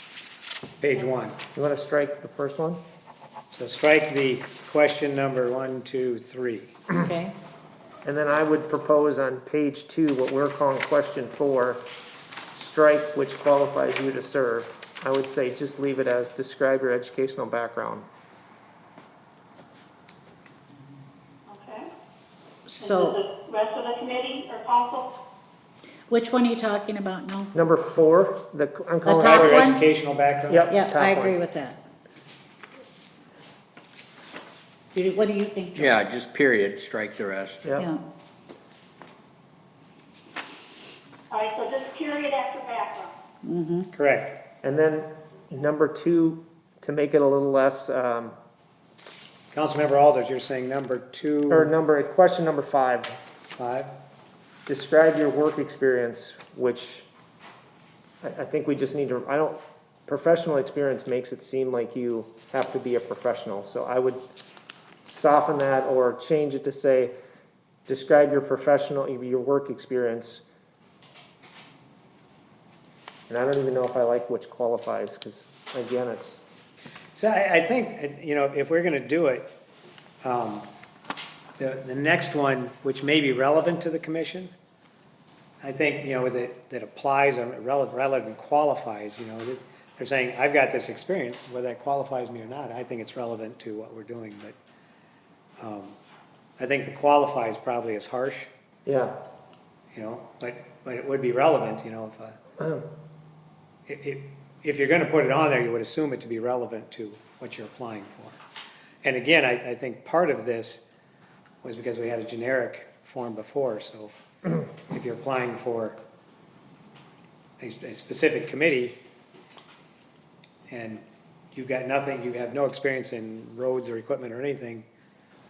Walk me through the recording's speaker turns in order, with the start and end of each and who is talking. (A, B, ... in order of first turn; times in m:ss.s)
0:00.8-0:01.4 A
0:01.5-0:02.8 B
0:03.5-0:06.8 A
0:06.9-0:07.3 C
0:08.0-0:11.8 B
0:12.5-0:18.1 B
0:21.5-0:21.9 D
0:22.7-0:23.2 C
0:22.8-0:25.1 D
0:26.1-0:27.5 C
0:27.5-0:29.7 B
0:29.0-0:29.8 C
0:29.2-0:30.7 A
0:30.5-0:31.4 B
0:30.7-0:31.8 C
0:34.9-0:36.0 C
0:35.7-0:37.8 E
0:37.8-0:38.0 C
0:41.3-0:43.1 D
0:43.4-0:43.9 C
0:43.9-0:44.4 A
0:44.6-0:48.3 B
0:49.5-0:51.7 A
0:51.5-0:53.1 B
0:53.6-0:53.9 A
0:54.6-0:57.0 B
0:58.2-1:04.2 B
1:05.0-1:07.1 B
1:07.9-1:10.4 B
1:13.3-1:16.4 B
1:17.2-1:19.5 A
1:20.2-1:20.7 A
1:21.6-1:24.5 A
1:25.6-1:34.6 A
1:35.6-1:36.0 A
1:36.6-1:38.5 A
1:38.8-1:39.2 B
1:39.9-1:42.4 A
1:42.6-1:42.8 B
1:43.9-1:48.4 A
1:49.0-1:50.8 A
1:51.6-1:54.1 A
1:54.8-1:56.0 A
1:57.6-1:59.0 A
2:00.7-2:04.8 A